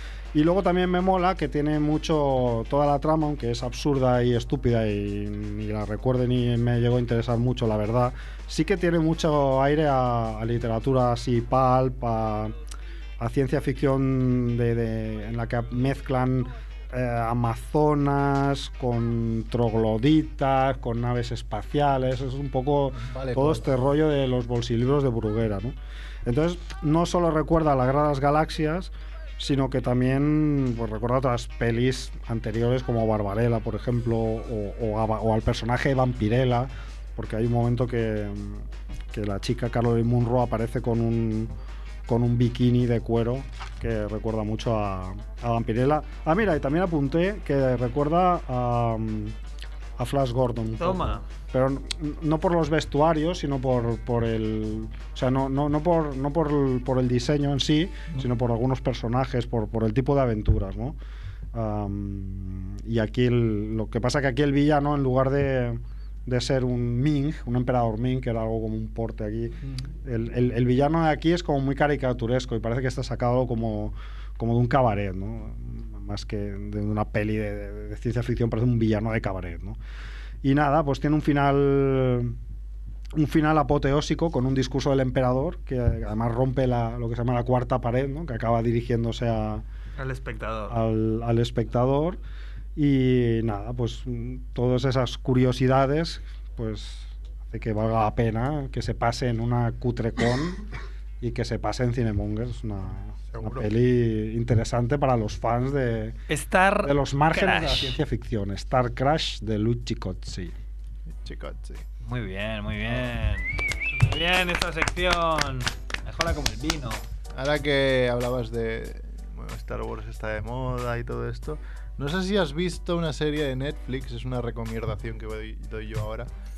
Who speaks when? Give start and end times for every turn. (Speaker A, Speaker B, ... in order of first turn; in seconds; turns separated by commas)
Speaker A: 0.3-12.5, Speaker A: 13.2-41.5, Speaker B: 23.0-23.6, Speaker A: 42.1-49.4, Speaker A: 50.0-61.0, Speaker C: 50.8-51.3, Speaker A: 61.5-79.8, Speaker A: 80.4-82.4, Speaker A: 83.1-89.6, Speaker C: 90.0-90.8, Speaker A: 90.7-92.2, Speaker A: 92.8-100.7, Speaker A: 101.2-106.2, Speaker B: 103.3-103.7, Speaker C: 106.3-108.0, Speaker A: 106.8-110.5, Speaker B: 111.1-111.8, Speaker C: 112.0-117.0, Speaker B: 112.8-113.1, Speaker B: 117.3-126.3